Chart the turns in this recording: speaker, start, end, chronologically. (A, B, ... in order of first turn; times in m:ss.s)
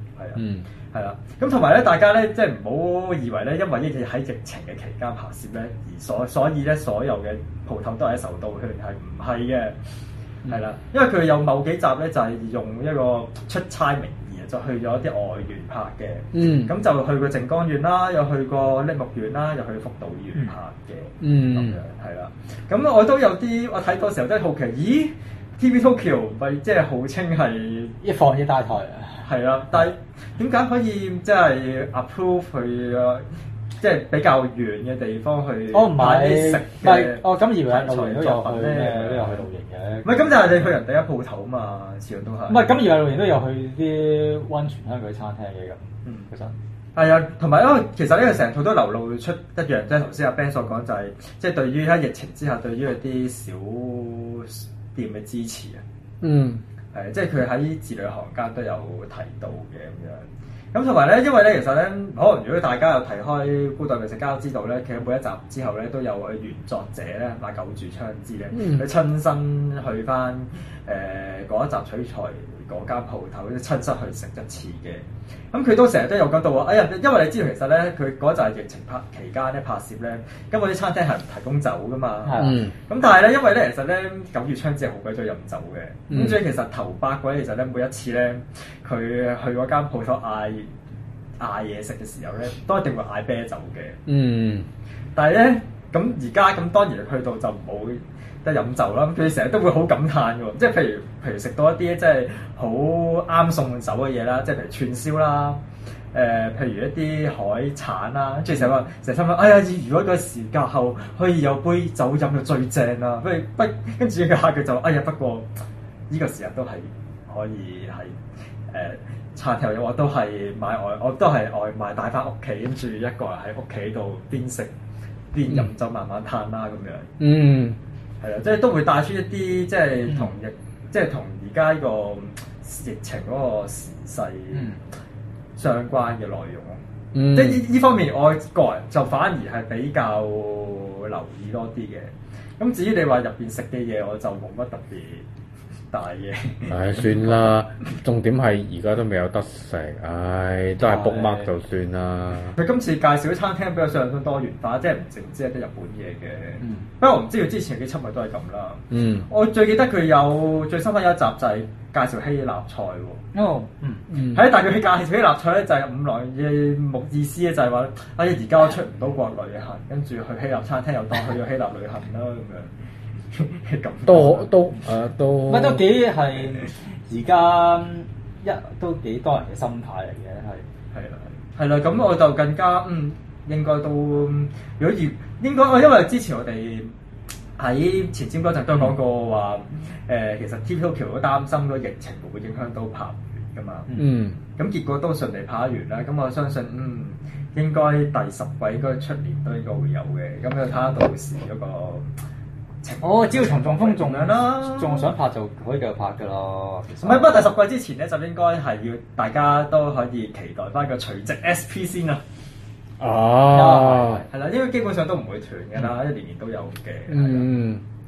0:00.2-0:09.8 A
0:00.4-0:00.6 B
0:10.4-0:27.9 A
0:16.3-0:16.7 B
0:21.2-0:21.8 B
0:28.0-0:29.2 C
0:29.2-0:39.5 A
0:35.7-0:40.5 C
0:40.0-0:42.7 A
0:42.5-0:46.5 C
0:47.0-0:55.8 A
0:56.2-0:56.6 B
0:56.9-1:30.7 A
1:08.6-1:08.8 B
1:22.2-1:22.6 C
1:22.4-1:22.7 B
1:26.1-1:26.4 B
1:31.4-1:34.0 A
1:34.1-1:34.7 B
1:35.1-1:45.6 A
1:46.1-1:55.5 A
1:56.1-1:58.2 A
1:58.7-2:04.7 A
2:05.3-2:07.1 A
2:07.2-2:07.8 B
2:08.2-2:14.7 A
2:14.5-2:14.8 C
2:15.6-2:25.2 A
2:17.1-2:17.6 B
2:25.9-2:27.6 A
2:26.7-2:32.6 B
2:30.8-2:31.5 C
2:32.6-2:43.2 A
2:36.6-2:36.9 C
2:38.9-2:39.2 B
2:43.3-2:44.0 C
2:44.1-2:44.5 B
2:44.2-2:52.7 A
2:53.3-2:54.5 A
2:54.1-2:55.8 B
2:55.5-3:00.6 C
3:00.9-3:06.9 A
3:07.6-3:13.9 A
3:14.0-3:14.4 B
3:14.6-3:22.1 A
3:22.8-3:25.1 A
3:23.0-3:27.4 C
3:27.0-3:32.2 A
3:33.0-3:34.2 B
3:33.5-3:34.3 C
3:34.3-3:37.5 A
3:37.1-3:37.8 B